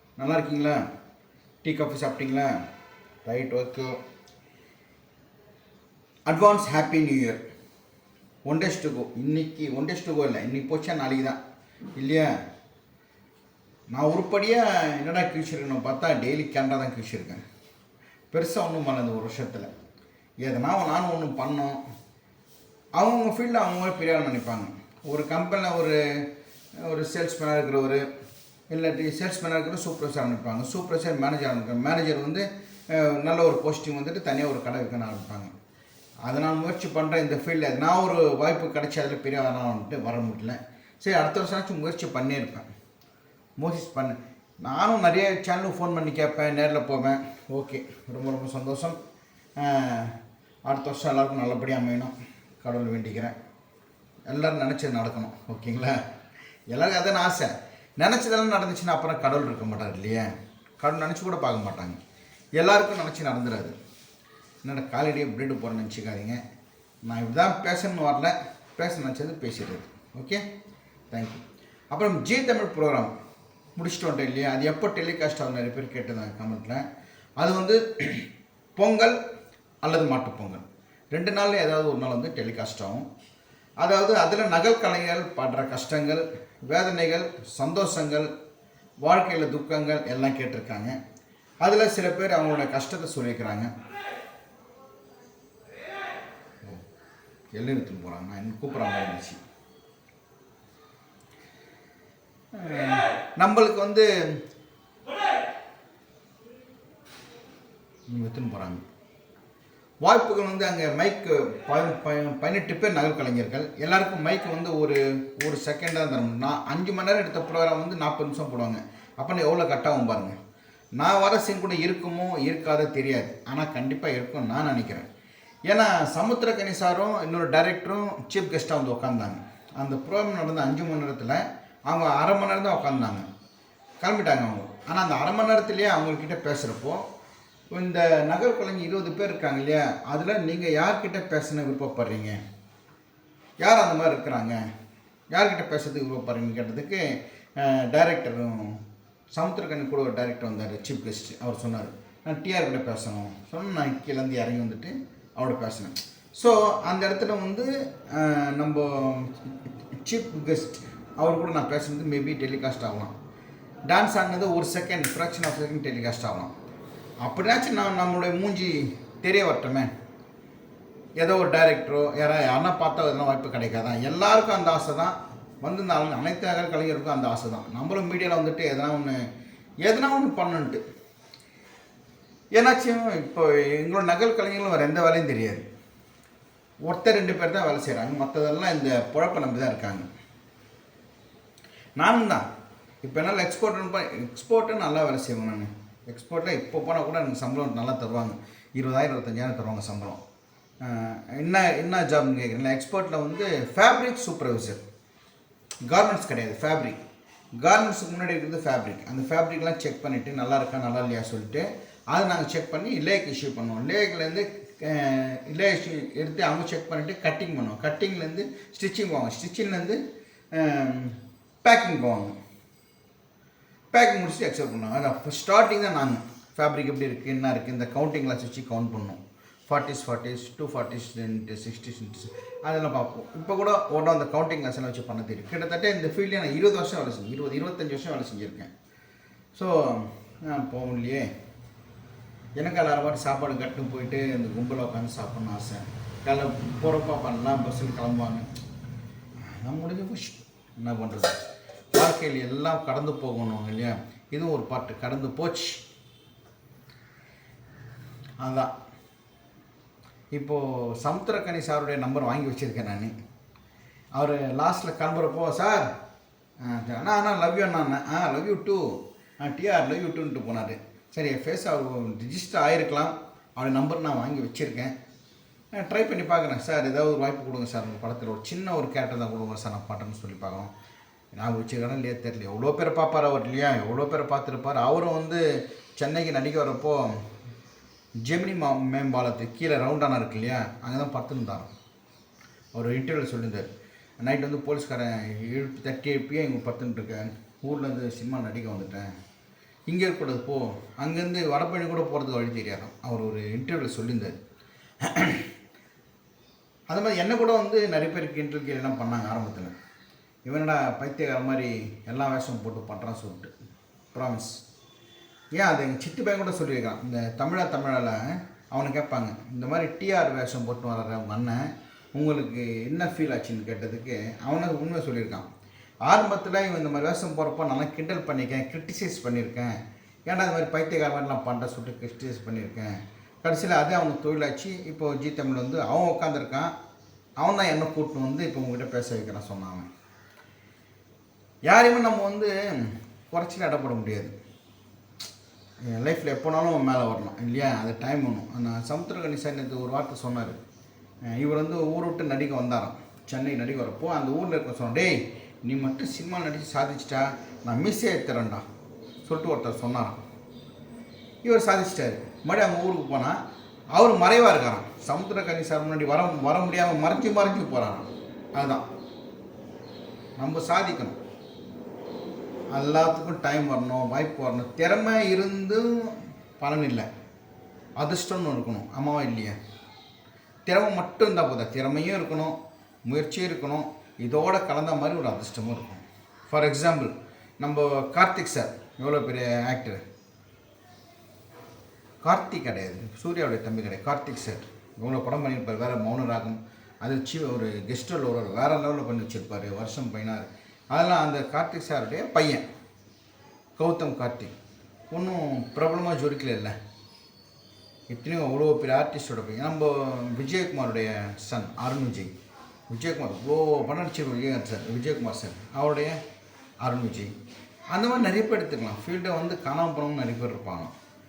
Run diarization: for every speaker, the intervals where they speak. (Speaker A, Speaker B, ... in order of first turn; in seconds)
Speaker A: 0.2-0.8, 1.6-2.5, 3.2-4.0, 6.3-7.4, 8.4-11.4, 12.0-12.3, 13.9-17.4, 18.3-19.7, 20.4-21.8, 23.0-26.2, 26.8-28.0, 28.7-35.5, 36.3-42.7, 43.6-49.0, 49.6-50.1, 50.7-53.4, 54.3-56.0, 56.7-60.3, 60.8-62.0, 62.6-63.8, 64.6-66.4, 67.0-70.4, 71.1-73.1, 73.8-76.8, 77.4-79.2, 79.8-83.0, 83.8-88.3, 89.0-91.0, 91.6-93.7, 97.5-99.4, 102.5-104.1, 108.1-108.8, 110.0-120.4, 121.0-125.1, 125.7-133.2, 134.0-137.0, 137.7-142.4, 143.6-144.6, 145.3-148.8, 149.3-163.1, 163.9-166.5, 167.2-169.9, 171.2-179.2, 179.8-180.8, 182.5-185.7, 186.9-190.1, 192.0-192.4, 193.0-200.2, 200.8-204.8, 205.9-207.0, 207.6-220.0, 220.5-222.4, 223.9-238.7, 239.5-241.3, 242.6-248.5, 249.4-251.4, 251.9-255.8, 258.4-258.7, 260.4-263.1, 264.1-265.9, 266.6-274.9, 275.7-280.7, 281.4-285.4, 286.0-287.2, 288.3-291.7, 292.7-293.7, 294.2-299.1, 299.9-304.4, 305.0-305.5, 306.9-309.7, 310.5-313.5, 314.1-314.6, 315.6-325.5, 326.1-329.7, 330.3-336.7, 337.4-339.9, 341.7-344.3, 345.9-350.6, 351.3-358.6, 359.2-360.2, 361.4-363.4, 363.9-368.9, 370.4-371.2, 372.7-377.1, 378.0-379.6, 380.7-382.6, 383.1-390.0, 392.2-402.6, 403.8-404.5, 405.1-406.8, 408.1-412.3, 412.9-416.2, 416.8-417.3, 417.9-420.9